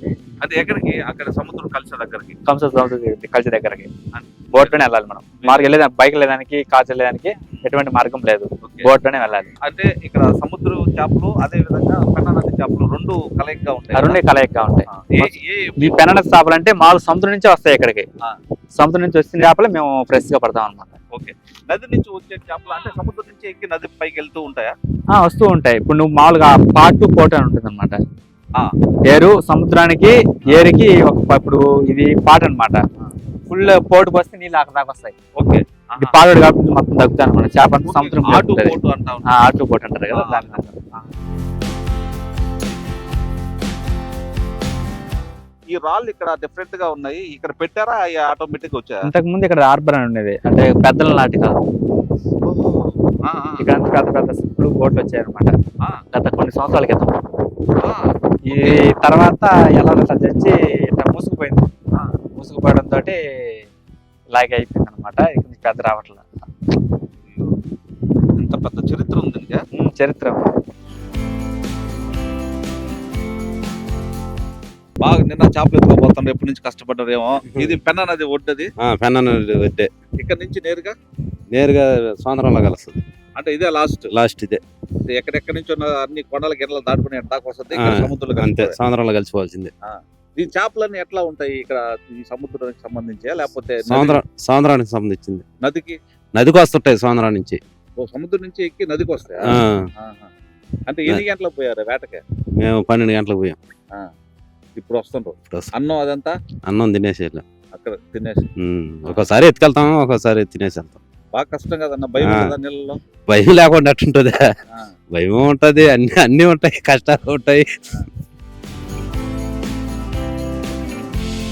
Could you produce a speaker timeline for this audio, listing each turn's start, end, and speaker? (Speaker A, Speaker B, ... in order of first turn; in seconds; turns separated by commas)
Speaker A: 0.4-2.4, Speaker B: 2.5-3.9, Speaker A: 4.1-4.8, Speaker B: 4.5-9.5, Speaker A: 5.4-5.7, Speaker A: 9.6-14.2, Speaker B: 13.9-18.1, Speaker A: 14.9-16.0, Speaker B: 18.8-20.9, Speaker A: 21.1-24.7, Speaker B: 25.1-28.0, Speaker B: 29.1-32.8, Speaker A: 30.5-30.7, Speaker B: 33.5-35.1, Speaker A: 35.4-36.2, Speaker B: 36.0-40.8, Speaker A: 37.9-39.3, Speaker A: 40.1-41.1, Speaker A: 45.7-49.0, Speaker B: 49.0-51.6, Speaker A: 52.5-53.6, Speaker B: 53.6-55.5, Speaker B: 56.1-57.2, Speaker A: 57.8-58.8, Speaker B: 58.5-61.7, Speaker B: 62.4-63.2, Speaker B: 64.3-66.3, Speaker A: 67.2-67.5, Speaker A: 68.4-69.6, Speaker B: 69.8-70.5, Speaker A: 75.0-78.7, Speaker C: 78.8-79.9, Speaker A: 80.2-81.0, Speaker C: 81.5-83.0, Speaker A: 83.4-84.1, Speaker C: 84.1-84.6, Speaker A: 85.1-88.8, Speaker C: 87.7-89.7, Speaker A: 89.9-94.2, Speaker C: 93.9-95.4, Speaker A: 95.6-96.0, Speaker C: 96.4-97.6, Speaker A: 98.0-100.3, Speaker C: 99.5-99.8, Speaker A: 100.9-102.2, Speaker C: 102.6-103.6, Speaker A: 104.8-106.3, Speaker C: 106.7-107.4, Speaker A: 107.7-108.5, Speaker C: 108.6-111.0, Speaker A: 111.3-113.0, Speaker C: 112.2-112.5, Speaker C: 113.3-114.5, Speaker C: 115.1-117.8